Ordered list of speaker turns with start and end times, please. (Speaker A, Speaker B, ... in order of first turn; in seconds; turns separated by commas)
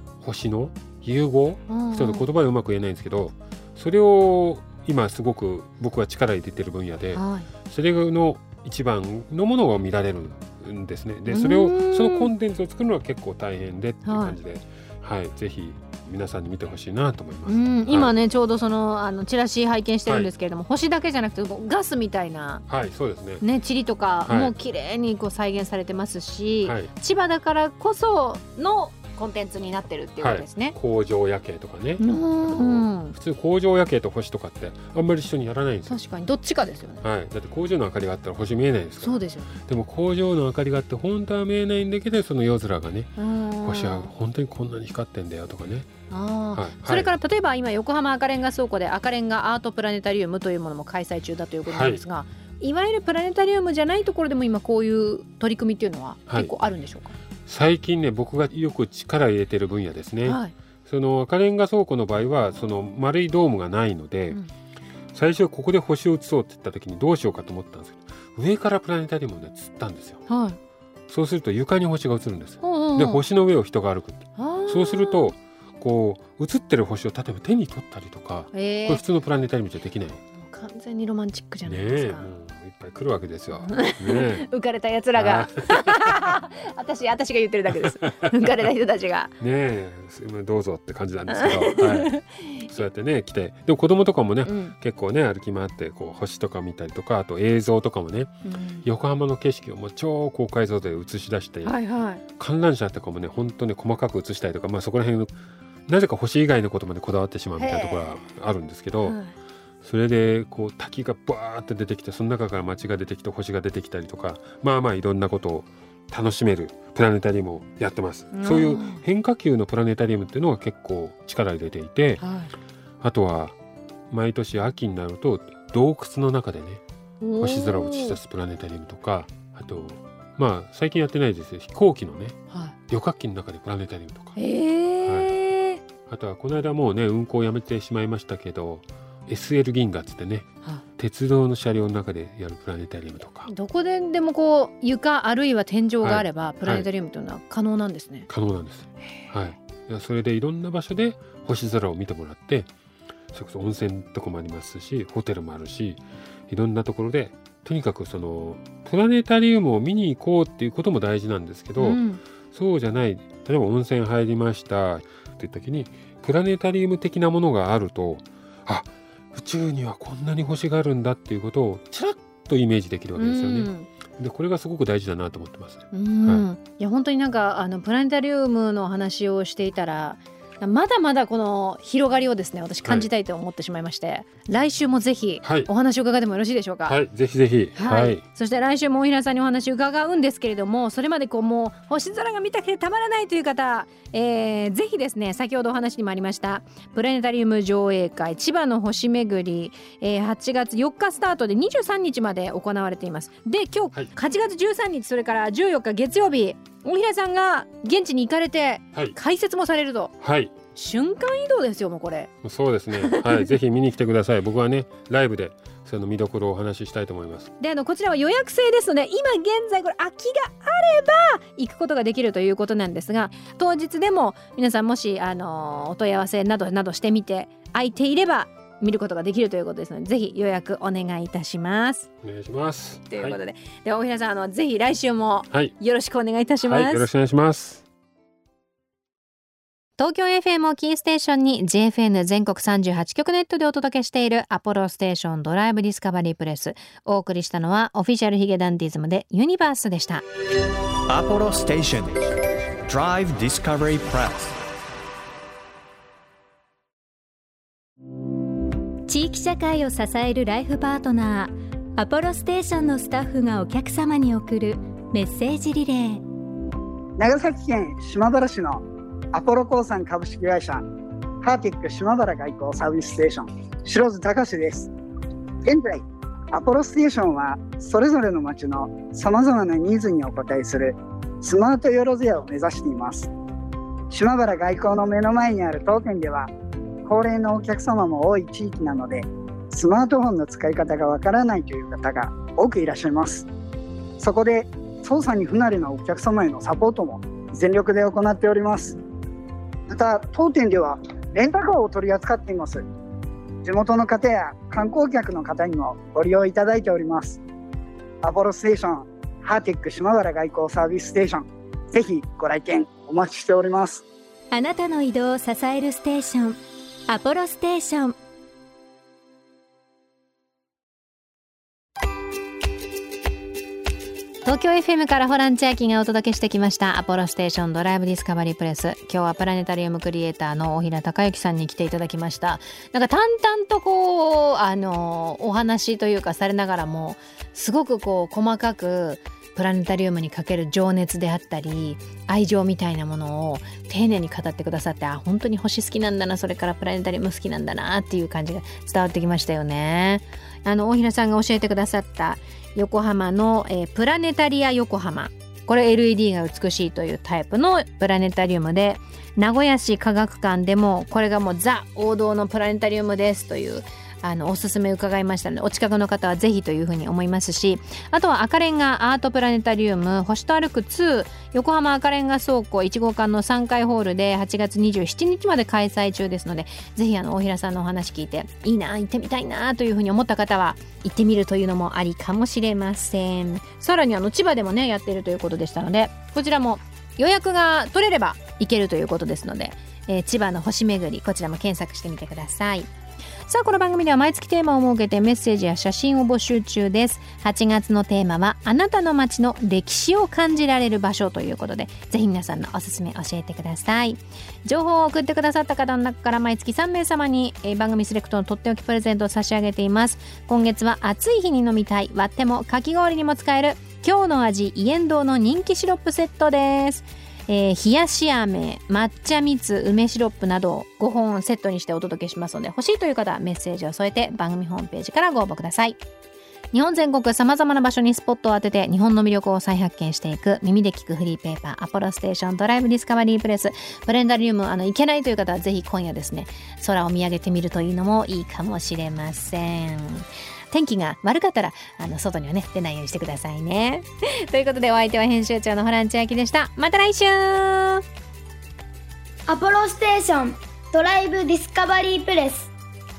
Speaker A: 0.2-18.1, Speaker B: 1.7-2.3, Speaker B: 7.1-7.5, Speaker B: 11.3-12.3, Speaker B: 14.0-14.4, Speaker B: 17.4-22.6, Speaker A: 22.7-23.4, Speaker B: 23.4-30.8, Speaker A: 24.3-24.5, Speaker A: 26.6-26.9, Speaker A: 30.2-36.0, Speaker B: 32.0-33.1, Speaker B: 35.9-37.0, Speaker A: 37.0-45.9, Speaker B: 39.0-39.5, Speaker B: 43.2-44.1, Speaker B: 46.1-57.2, Speaker A: 46.5-47.1, Speaker A: 51.6-52.0, Speaker A: 57.5-64.4, Speaker B: 60.2-60.5, Speaker A: 65.1-70.2, Speaker B: 70.3-70.6, Speaker A: 71.1-80.2, Speaker B: 72.6-73.2, Speaker B: 74.4-75.3, Speaker B: 78.5-79.0, Speaker B: 80.3-82.3, Speaker A: 81.7-84.5, Speaker B: 83.7-89.3, Speaker A: 85.2-86.2, Speaker A: 89.4-105.3, Speaker B: 91.3-92.6, Speaker B: 94.4-94.7, Speaker B: 98.4-98.9, Speaker B: 101.6-102.2, Speaker A: 105.9-109.2, Speaker B: 107.6-108.2, Speaker B: 109.0-109.3, Speaker A: 109.8-122.2, Speaker B: 118.3-119.0, Speaker B: 122.2-122.5, Speaker A: 123.0-123.5, Speaker A: 124.1-126.8, Speaker B: 127.2-128.2, Speaker A: 127.4-134.4, Speaker B: 134.4-135.8, Speaker A: 135.0-135.3, Speaker A: 136.1-143.5, Speaker B: 143.4-148.3, Speaker A: 146.0-146.9, Speaker A: 148.3-152.7, Speaker A: 153.3-176.4, Speaker B: 161.8-162.2, Speaker B: 173.2-173.9, Speaker B: 175.9-187.0, Speaker A: 185.4-185.7, Speaker A: 186.8-188.2, Speaker B: 187.8-210.1, Speaker A: 210.2-210.5, Speaker B: 210.7-212.3, Speaker A: 212.4-217.5, Speaker B: 212.9-213.5, Speaker B: 217.6-232.1, Speaker A: 232.2-233.4, Speaker B: 233.1-237.1, Speaker A: 236.6-237.8, Speaker B: 240.0-250.2, Speaker C: 251.1-254.6, Speaker D: 259.1-266.2, Speaker E: 267.2-270.8, Speaker E: 271.4-274.9, Speaker E: 275.6-283.3, Speaker E: 284.1-286.5, Speaker E: 287.1-293.5, Speaker E: 294.2-299.0, Speaker E: 299.9-302.8, Speaker E: 303.6-307.4, Speaker E: 308.2-314.0, Speaker D: 314.5-318.1, Speaker B: 324.4-392.9, Speaker B: 393.5-426.0, Speaker B: 426.7-448.0, Speaker F: 449.5-452.7